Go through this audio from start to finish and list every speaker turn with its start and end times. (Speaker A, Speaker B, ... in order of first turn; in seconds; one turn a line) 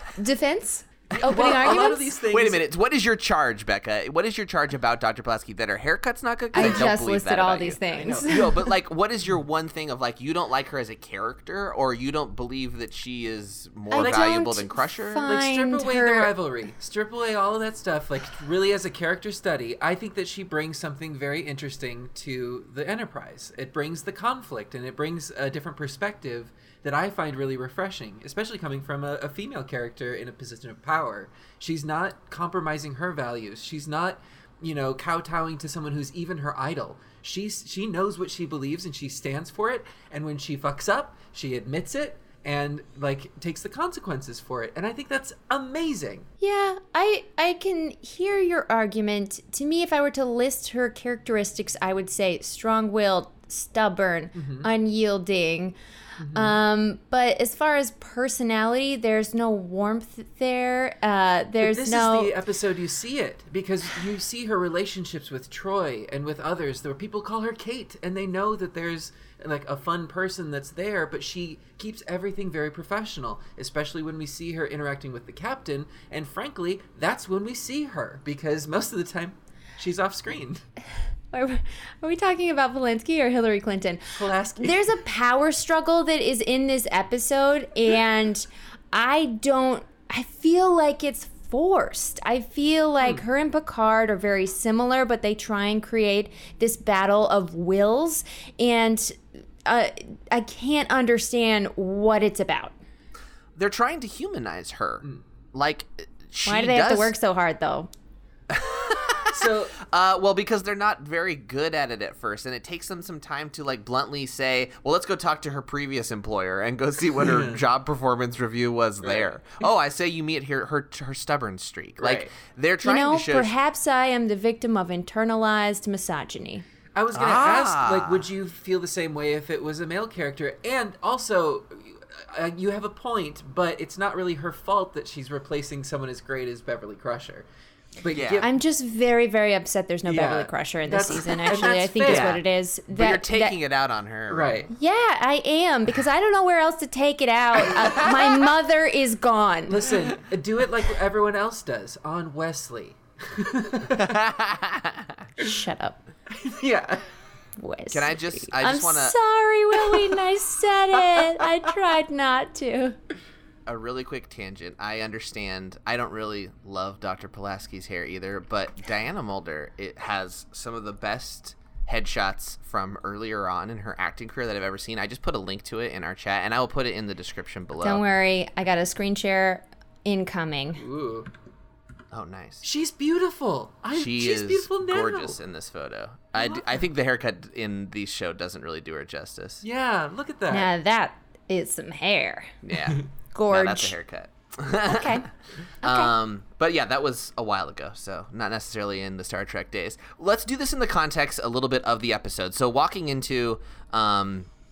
Speaker A: 0.2-2.2
Speaker B: 1.1-2.6
Speaker C: 1.7-15.3
Speaker A: 6.5-8.6
Speaker B: 6.5-6.9
Speaker B: 7.9-8.6
Speaker A: 13.9-16.3
Speaker B: 15.3-46.3
Speaker A: 46.4-55.8
Speaker B: 54.3-54.7
Speaker B: 56.2-56.6
Speaker A: 56.3-62.3
Speaker B: 61.6-80.7
Speaker A: 81.3-102.8
Speaker B: 84.1-85.0
Speaker C: 103.5-107.1
Speaker A: 106.5-107.9
Speaker C: 108.5-123.5
Speaker B: 109.3-109.7
Speaker B: 117.2-117.6
Speaker B: 122.0-122.3
Speaker A: 122.8-126.7
Speaker B: 127.0-137.5
Speaker C: 127.1-128.3
Speaker B: 138.0-138.5
Speaker C: 138.1-138.5
Speaker A: 138.4-143.6
Speaker B: 140.1-142.4
Speaker C: 142.0-144.7
Speaker B: 144.3-144.7
Speaker A: 144.7-150.0
Speaker B: 149.7-154.2
Speaker C: 153.9-155.3
Speaker A: 155.4-156.0
Speaker B: 156.3-157.1
Speaker A: 157.6-163.0
Speaker C: 157.9-159.2
Speaker B: 159.9-160.2
Speaker B: 161.1-161.7
Speaker C: 163.7-178.0
Speaker A: 177.8-180.8
Speaker B: 180.8-181.3
Speaker C: 182.1-182.6
Speaker B: 182.6-185.4
Speaker C: 183.9-189.6
Speaker B: 186.4-186.8
Speaker B: 189.6-190.7
Speaker A: 190.5-192.6
Speaker C: 192.6-195.3
Speaker A: 193.3-193.9
Speaker A: 194.9-195.3
Speaker A: 195.8-196.1
Speaker C: 195.8-204.5